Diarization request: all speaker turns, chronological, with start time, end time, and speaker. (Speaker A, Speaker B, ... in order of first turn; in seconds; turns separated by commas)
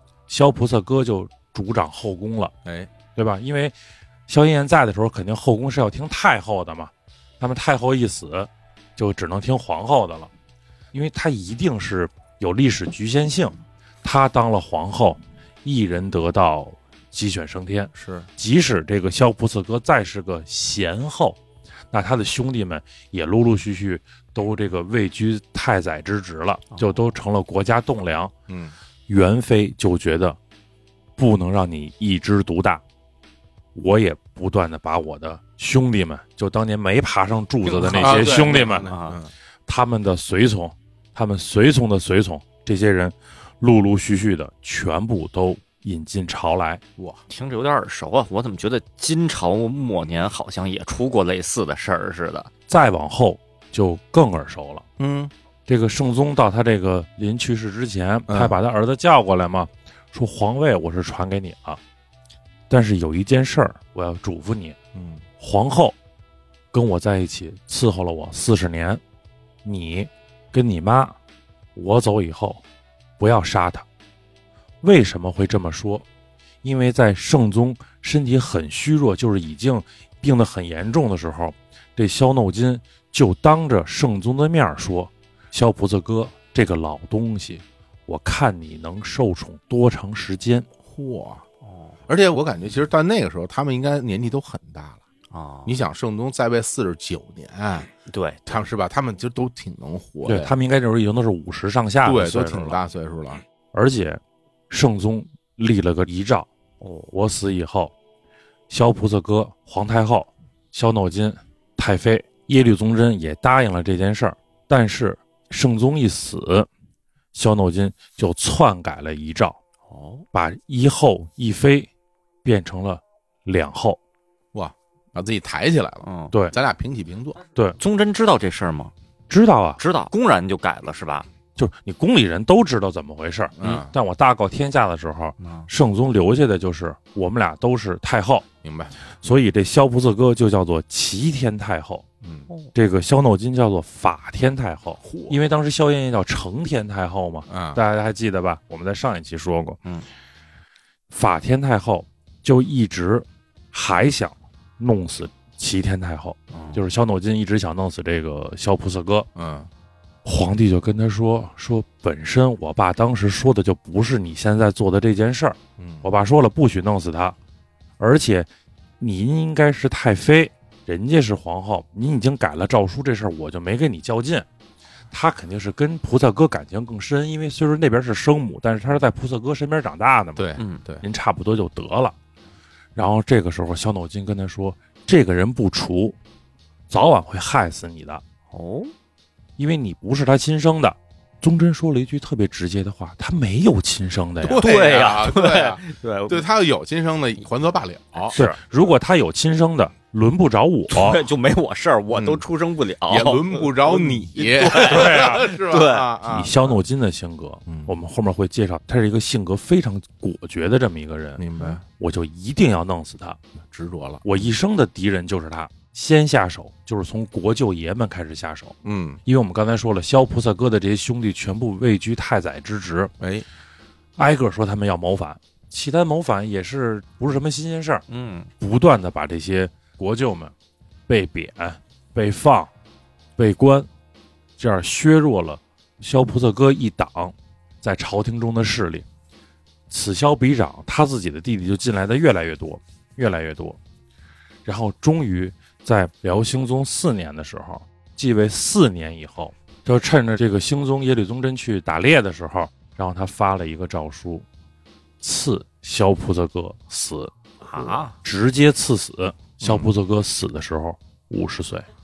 Speaker A: 0.3-2.5, Speaker B: 2.6-2.9, Speaker A: 3.1-3.7, Speaker A: 4.3-10.3, Speaker A: 10.9-21.4, Speaker B: 17.9-18.3, Speaker A: 21.9-28.3, Speaker C: 26.7-27.0, Speaker B: 28.5-28.7, Speaker A: 29.1-30.4, Speaker A: 31.2-32.8, Speaker A: 33.7-38.9, Speaker B: 37.7-39.3, Speaker C: 37.7-39.2, Speaker A: 39.6-46.8, Speaker C: 47.3-52.5, Speaker A: 52.7-54.9, Speaker B: 55.0-55.3, Speaker A: 55.7-61.8, Speaker B: 58.3-58.6, Speaker A: 62.7-64.8, Speaker B: 64.9-65.2, Speaker A: 65.4-66.0, Speaker A: 66.7-69.0, Speaker A: 69.6-71.2, Speaker A: 71.7-72.6, Speaker A: 73.2-73.8, Speaker A: 74.8-76.0, Speaker A: 76.6-90.7, Speaker B: 90.8-91.4, Speaker C: 91.6-92.0, Speaker B: 92.1-95.0, Speaker C: 95.3-95.7, Speaker B: 95.7-97.9, Speaker C: 98.1-98.4, Speaker B: 98.5-100.5, Speaker A: 100.2-102.8, Speaker B: 102.0-103.4, Speaker A: 103.7-106.5, Speaker C: 106.8-107.1, Speaker A: 107.1-107.9, Speaker A: 108.7-116.7, Speaker A: 117.3-119.6, Speaker C: 119.9-120.2, Speaker A: 120.3-121.9, Speaker A: 122.4-124.0, Speaker B: 124.5-127.4, Speaker C: 126.0-126.3, Speaker C: 127.8-128.9, Speaker A: 129.3-129.8, Speaker C: 129.8-131.3, Speaker A: 131.6-138.4, Speaker B: 133.6-133.9, Speaker C: 135.4-135.7, Speaker B: 138.6-138.9, Speaker A: 139.2-142.1, Speaker B: 142.2-142.5, Speaker A: 142.7-149.8, Speaker B: 145.0-145.4, Speaker B: 147.5-147.8, Speaker A: 151.1-159.3, Speaker C: 156.5-156.8, Speaker B: 159.3-159.7, Speaker A: 160.2-167.3, Speaker B: 165.8-166.1, Speaker A: 168.0-168.5, Speaker A: 169.0-174.4, Speaker A: 175.1-180.5, Speaker B: 180.3-181.0, Speaker C: 180.6-180.8, Speaker A: 181.0-182.1, Speaker A: 182.9-186.2, Speaker A: 186.9-188.2, Speaker C: 188.5-188.9, Speaker A: 189.6-194.6, Speaker B: 194.4-198.4, Speaker C: 194.6-196.4, Speaker C: 198.3-198.6, Speaker A: 198.3-201.2, Speaker C: 200.9-206.1, Speaker B: 202.1-202.4, Speaker B: 203.1-206.7, Speaker A: 204.8-205.5, Speaker A: 206.3-211.4, Speaker B: 207.7-207.9, Speaker B: 211.4-211.8, Speaker A: 211.9-213.4, Speaker B: 213.7-214.4, Speaker A: 214.2-223.1, Speaker B: 218.8-219.2, Speaker B: 223.2-223.4, Speaker A: 224.2-228.0, Speaker C: 228.1-228.5, Speaker A: 228.6-230.5, Speaker A: 231.1-232.7, Speaker A: 233.4-233.9, Speaker A: 234.6-239.0, Speaker A: 239.9-243.8, Speaker A: 244.6-254.4, Speaker A: 255.2-257.3, Speaker C: 257.6-258.1, Speaker A: 258.2-261.9, Speaker B: 259.6-259.9